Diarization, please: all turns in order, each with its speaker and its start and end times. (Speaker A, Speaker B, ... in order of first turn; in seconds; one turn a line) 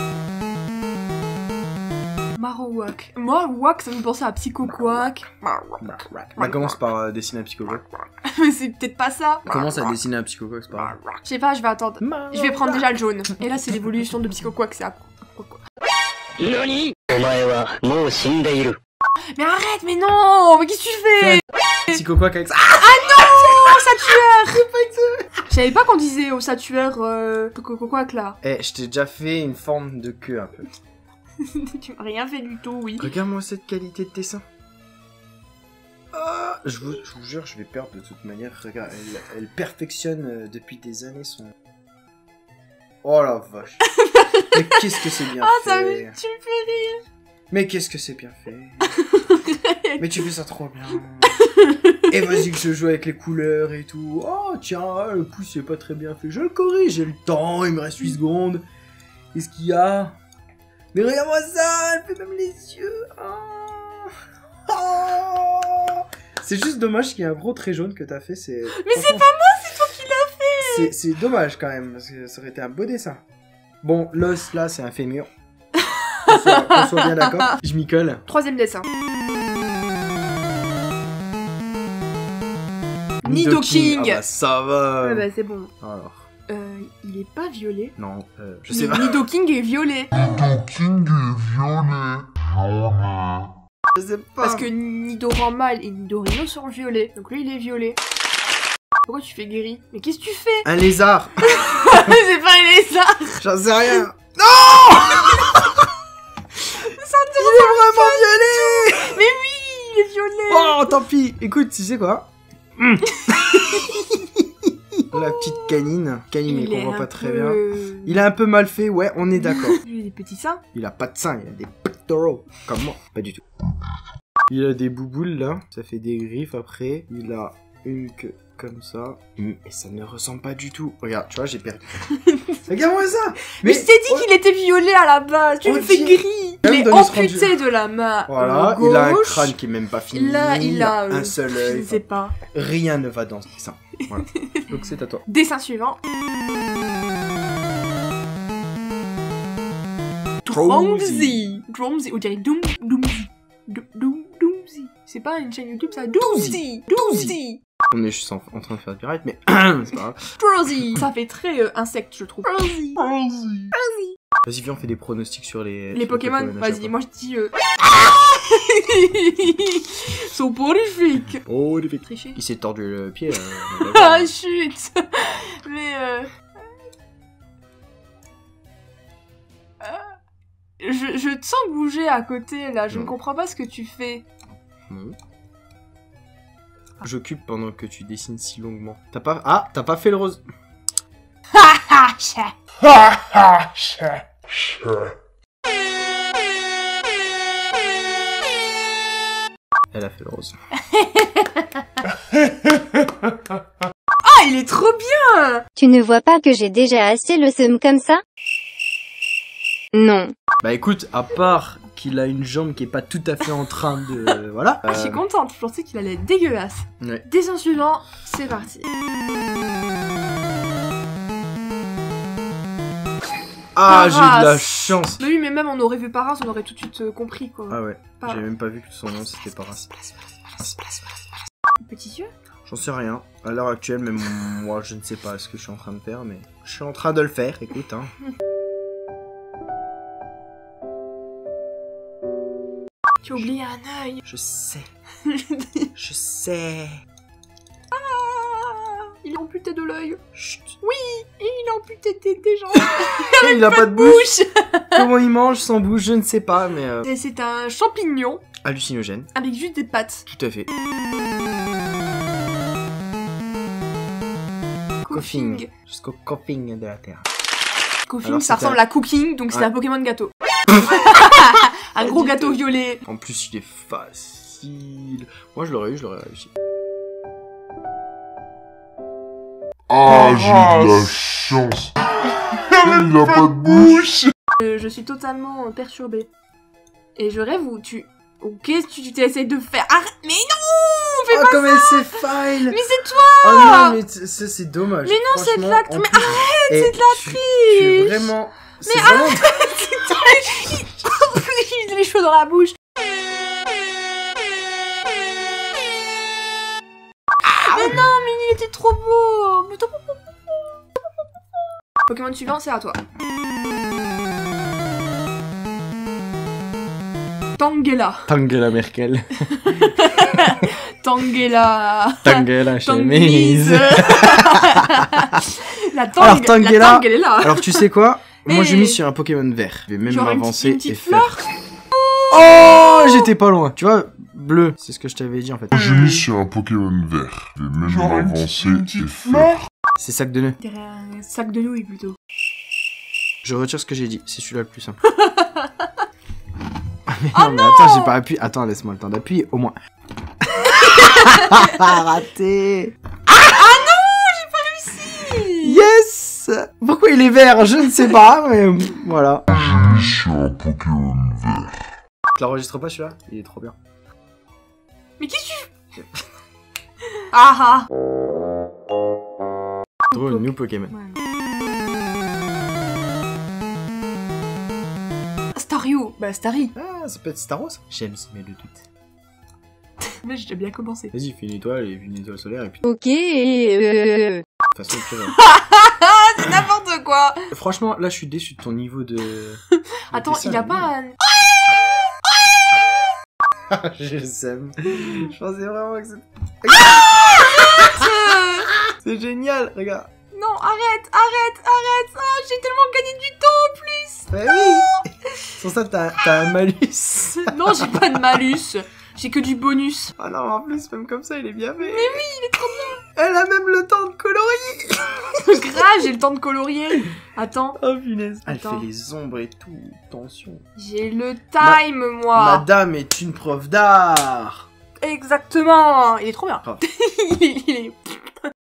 Speaker A: 2.3-5.8
Speaker B: 4.6-5.1
Speaker B: 5.8-7.8
Speaker A: 6.4-6.7
Speaker A: 8.2-10.0
Speaker B: 9.5-11.0
Speaker A: 10.8-15.6
Speaker B: 12.0-12.9
Speaker C: 16.4-18.8
Speaker A: 19.3-21.4
Speaker B: 21.2-25.3
Speaker A: 22.8-24.6
Speaker A: 25.5-28.4
Speaker B: 28.4-30.7
Speaker A: 31.4-33.1
Speaker B: 33.0-34.4
Speaker B: 36.1-41.5
Speaker B: 43.0-43.9
Speaker A: 43.9-47.0
Speaker B: 44.5-46.2
Speaker B: 47.5-48.9
Speaker A: 48.9-50.2
Speaker B: 50.0-51.4
Speaker A: 51.2-52.4
Speaker B: 52.1-58.6
Speaker B: 59.3-60.1
Speaker B: 60.9-64.1
Speaker B: 64.7-69.3
Speaker A: 68.7-70.9
Speaker B: 70.6-73.2
Speaker B: 73.8-75.3
Speaker A: 75.8-77.5
Speaker B: 76.2-78.2
Speaker A: 78.3-78.9
Speaker A: 83.2-84.2
Speaker B: 83.2-85.3
Speaker A: 85.0-85.7
Speaker B: 85.8-86.3
Speaker A: 86.5-87.9
Speaker B: 88.0-89.2
Speaker A: 88.7-90.1
Speaker D: 90.2-93.5
Speaker B: 93.9-94.7
Speaker A: 94.4-98.0
Speaker A: 99.0-100.7
Speaker B: 100.6-101.5
Speaker A: 101.4-103.4
Speaker B: 103.4-105.9
Speaker A: 105.3-105.5
Speaker A: 106.7-110.9
Speaker B: 107.4-109.2
Speaker B: 110.5-119.8
Speaker A: 113.2-113.9
Speaker A: 115.1-115.8
Speaker A: 116.5-118.2
Speaker A: 119.5-120.6
Speaker B: 120.7-123.4
Speaker B: 124.5-131.9
Speaker A: 132.1-132.6
Speaker B: 132.6-134.3
Speaker A: 133.5-139.5
Speaker B: 135.6-137.6
Speaker B: 138.3-145.2
Speaker A: 140.1-142.3
Speaker A: 144.3-144.7
Speaker A: 145.2-146.0
Speaker B: 150.4-151.4
Speaker A: 150.4-157.6
Speaker B: 156.2-157.3
Speaker B: 157.9-160.2
Speaker A: 160.4-163.0
Speaker B: 163.1-163.7
Speaker A: 163.7-164.2
Speaker B: 164.4-166.9
Speaker A: 165.9-171.4
Speaker B: 171.4-174.3
Speaker A: 172.1-172.4
Speaker A: 173.7-176.3
Speaker A: 179.8-180.1
Speaker A: 180.8-184.2
Speaker B: 184.9-185.1
Speaker B: 187.0-190.4
Speaker A: 191.5-192.5
Speaker B: 199.9-200.5
Speaker A: 200.8-202.1
Speaker A: 204.2-205.6
Speaker E: 205.8-208.2
Speaker E: 209.9-210.3
Speaker B: 210.6-215.2
Speaker A: 214.9-218.9
Speaker B: 223.7-225.2
Speaker A: 223.8-228.4
Speaker B: 227.7-229.9
Speaker A: 229.3-232.3
Speaker B: 232.6-238.1
Speaker A: 243.2-244.2
Speaker B: 244.2-244.9
Speaker A: 245.2-245.9
Speaker B: 245.9-247.0
Speaker A: 247.9-250.2
Speaker B: 250.3-250.8
Speaker A: 250.8-255.0
Speaker B: 253.3-254.3
Speaker B: 254.9-257.1
Speaker A: 257.0-258.4
Speaker B: 258.6-259.3
Speaker A: 259.3-260.2
Speaker B: 260.3-260.7
Speaker A: 265.1-265.7
Speaker B: 265.1-267.2
Speaker A: 268.1-273.0
Speaker B: 268.2-268.8
Speaker B: 270.7-271.0
Speaker B: 272.0-276.5
Speaker D: 279.9-281.9
Speaker D: 282.8-284.3
Speaker A: 284.6-286.3
Speaker A: 287.1-294.0
Speaker B: 291.3-292.8
Speaker B: 293.4-299.5
Speaker A: 295.0-298.3
Speaker A: 298.9-302.8
Speaker A: 307.5-310.9
Speaker B: 307.6-308.0
Speaker A: 312.1-313.0
Speaker A: 317.6-318.3
Speaker B: 318.3-319.9
Speaker A: 319.5-327.9
Speaker B: 322.2-325.1
Speaker B: 326.2-331.4
Speaker A: 328.4-329.0
Speaker A: 330.1-331.4
Speaker A: 331.9-333.2
Speaker B: 332.3-336.0
Speaker D: 335.7-339.5
Speaker B: 340.0-340.6
Speaker A: 340.6-342.2
Speaker B: 343.4-345.0
Speaker A: 345.1-345.9
Speaker B: 347.1-349.8
Speaker A: 347.3-348.1
Speaker B: 350.4-352.9
Speaker A: 350.6-351.9
Speaker A: 353.3-355.8
Speaker B: 355.6-359.6
Speaker D: 359.5-361.8
Speaker B: 362.3-363.7
Speaker A: 365.2-365.7
Speaker A: 367.3-367.9
Speaker B: 370.1-370.9
Speaker A: 370.1-371.2
Speaker A: 375.5-376.7
Speaker B: 376.7-378.8
Speaker A: 380.1-381.1
Speaker B: 381.1-382.8
Speaker E: 382.8-384.4
Speaker B: 384.7-385.3
Speaker A: 385.3-387.4
Speaker B: 387.5-389.6
Speaker A: 389.7-391.8
Speaker B: 390.1-390.9
Speaker B: 393.7-398.1
Speaker A: 396.7-398.7
Speaker B: 398.8-400.1
Speaker A: 400.3-405.4
Speaker B: 404.3-408.4
Speaker A: 407.4-410.1
Speaker B: 410.2-412.2
Speaker A: 411.8-413.0
Speaker B: 413.1-415.8
Speaker A: 415.4-417.8
Speaker B: 417.8-420.6
Speaker A: 418.4-418.9
Speaker A: 420.8-422.6
Speaker B: 422.3-424.7
Speaker A: 425.0-428.3